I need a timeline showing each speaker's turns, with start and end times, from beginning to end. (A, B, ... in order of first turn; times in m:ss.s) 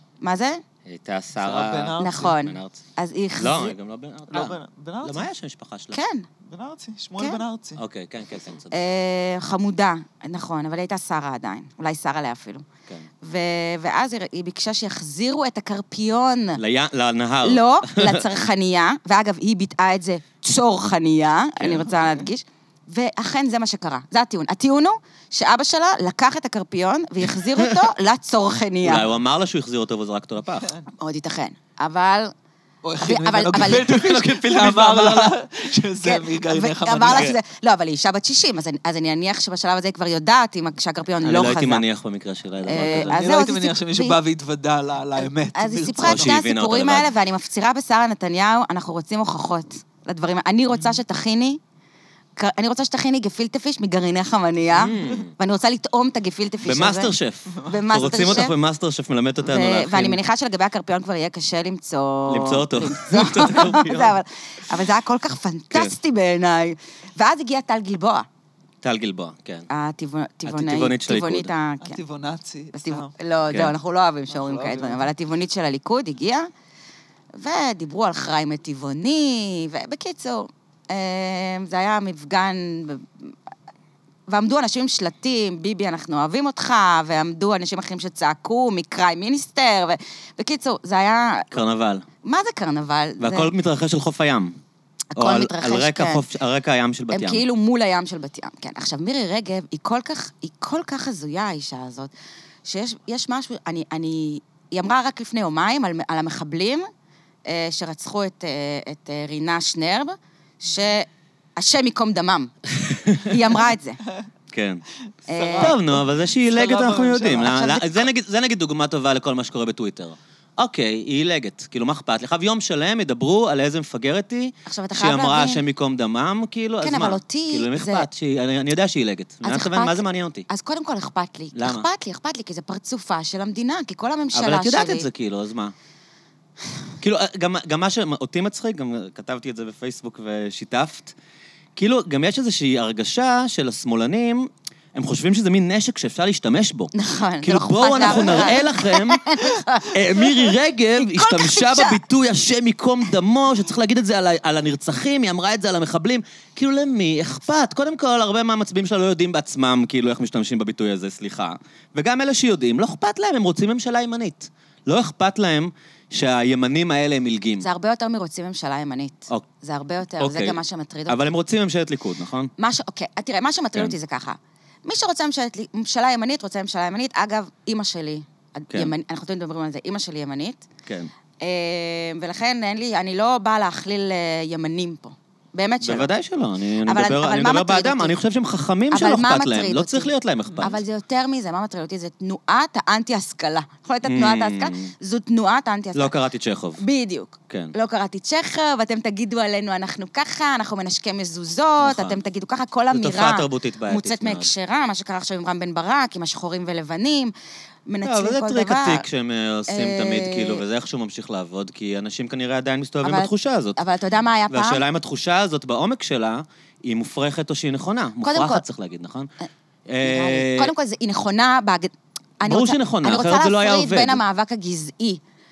0:00.2-0:00.6 A
0:00.9-0:02.8 B
0:01.4-0:02.4 C
0:02.0-0:03.8 A
0:03.4-0:06.0 B
0:04.3-0:05.3 C
0:05.9-0:06.3 A
0:06.5-0:07.8 C
0:07.8-0:08.7 B
0:08.7-0:12.7 A
0:13.2-0:16.6 A
0:16.6-0:18.3 B
0:17.4-0:29.1 A
0:21.6-0:22.2 B
0:28.8-0:30.7 B
0:31.0-0:32.3 A
0:32.8-0:37.4 C
0:33.0-0:34.1 A
0:33.7-0:35.4 B
0:36.0-0:41.8 A
0:37.1-0:37.4 B
0:41.2-0:43.1 B
0:42.7-0:44.2 A
0:42.9-0:46.3 C
0:45.2-0:51.6 A
0:46.0-0:47.1 B
0:52.4-0:58.5 A
0:54.8-0:55.3 B
0:56.6-1:00.2 B
0:57.6-0:58.4 C
0:59.4-1:08.3 A
1:02.3-1:04.2 B
1:08.8-1:09.7 B
1:09.7-1:12.0 A
1:10.5-1:11.5 B
1:11.8-1:13.1 C
1:12.7-1:16.5 A
1:14.3-1:15.1 C
1:17.4-1:23.3 A
1:24.3-1:31.5 A
1:31.5-1:32.0 B
1:32.2-1:33.5 A
1:33.2-1:34.6 B
1:35.1-1:36.2 A
1:35.2-1:37.4 B
1:37.1-1:42.1 A
1:42.6-1:46.9 A
1:47.5-1:52.5 A
1:52.8-1:53.4 B
1:53.1-1:54.0 A
1:54.5-1:54.8 B
1:55.3-1:55.8 A
1:55.3-1:57.8 C
1:55.6-2:10.5 B
1:57.4-1:58.0 A
2:04.7-2:05.6 A
2:06.8-2:08.1 A
2:09.4-2:15.1 A
2:11.6-2:11.9 B
2:14.3-2:15.7 B
2:17.0-2:21.2 B
2:21.8-2:29.2 B
2:26.9-2:32.0 A
2:29.8-2:47.7 B
2:47.6-2:51.3 A
2:50.2-2:52.5 B
2:52.6-3:00.7 A
3:00.9-3:01.1 B
3:01.4-3:06.1 A
3:05.8-3:10.8 B
3:06.9-3:08.2 A
3:08.9-3:16.1 A
3:14.0-3:14.9 B
3:16.0-3:16.8 B
3:16.8-3:27.3 A
3:17.5-3:17.7 B
3:21.8-3:22.2 B
3:22.9-3:24.5 B
3:27.9-3:29.1 A
3:28.0-3:33.8 B
3:29.7-3:30.6 A
3:33.0-3:34.8 A
3:34.5-3:39.3 B
3:38.2-3:38.6 A
3:39.9-3:40.7 B
3:40.0-3:45.2 A
3:42.4-3:44.2 B